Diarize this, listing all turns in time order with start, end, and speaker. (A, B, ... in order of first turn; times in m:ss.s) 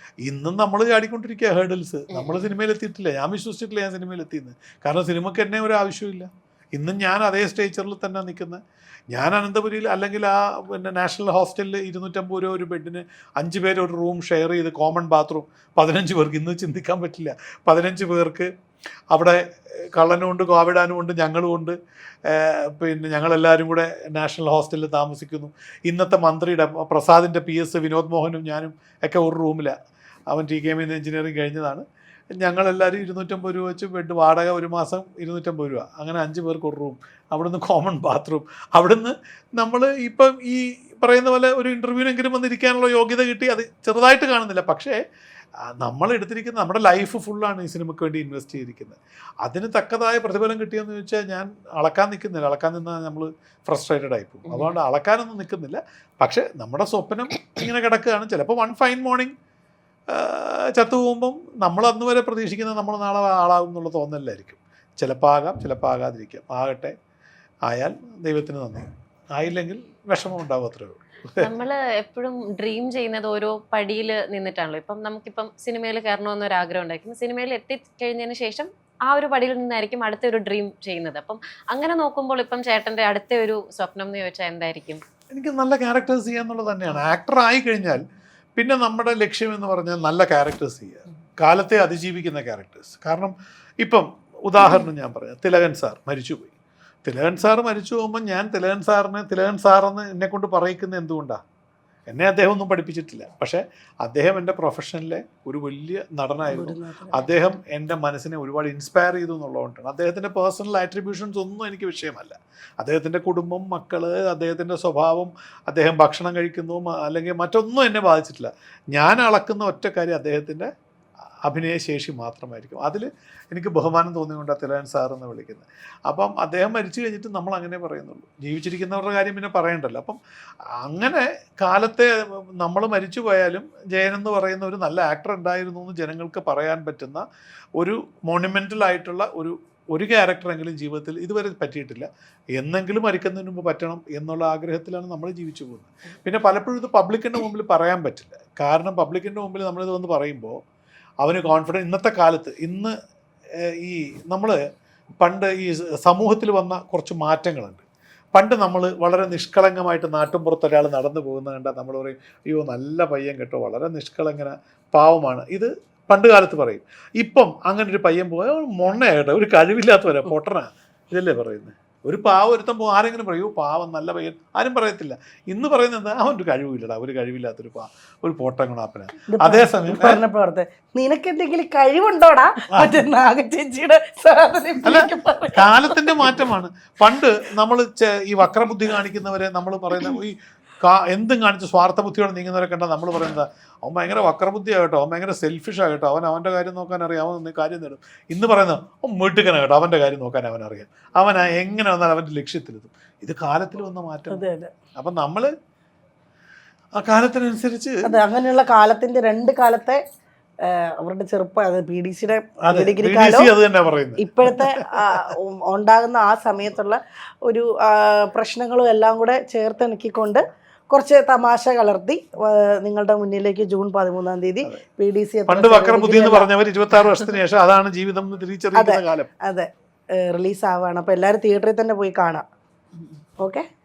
0:00.2-0:18.5 A
0:02.1-0:02.5 B
0:19.1-0:19.4 A
0:19.9-0:29.8 A
0:30.3-0:31.8 A
0:32.4-0:45.0 A
0:45.8-0:59.3 A
0:54.5-0:54.8 B
1:00.1-1:06.9 A
1:07.7-1:11.5 A
1:11.4-1:25.0 B
1:25.3-1:28.0 A
1:28.6-1:36.5 A
1:37.0-1:41.4 A
1:42.1-2:00.7 A
1:46.5-1:47.3 C
2:01.4-2:10.2 A
2:10.8-2:17.2 A
2:17.8-2:30.6 A
2:31.2-2:32.9 A
2:33.8-2:34.6 A
2:35.2-2:37.8 A
2:38.3-3:00.2 A
2:59.3-3:06.3 C
3:02.7-3:03.0 A
3:04.8-3:25.5 A
3:24.3-3:24.7 C
3:27.0-3:28.2 A
3:28.0-3:30.0 C
3:30.6-3:33.5 C
3:32.6-3:35.2 A
3:34.2-3:46.5 C
3:45.5-3:49.3 A
3:48.7-3:52.4 C
3:53.4-3:53.6 C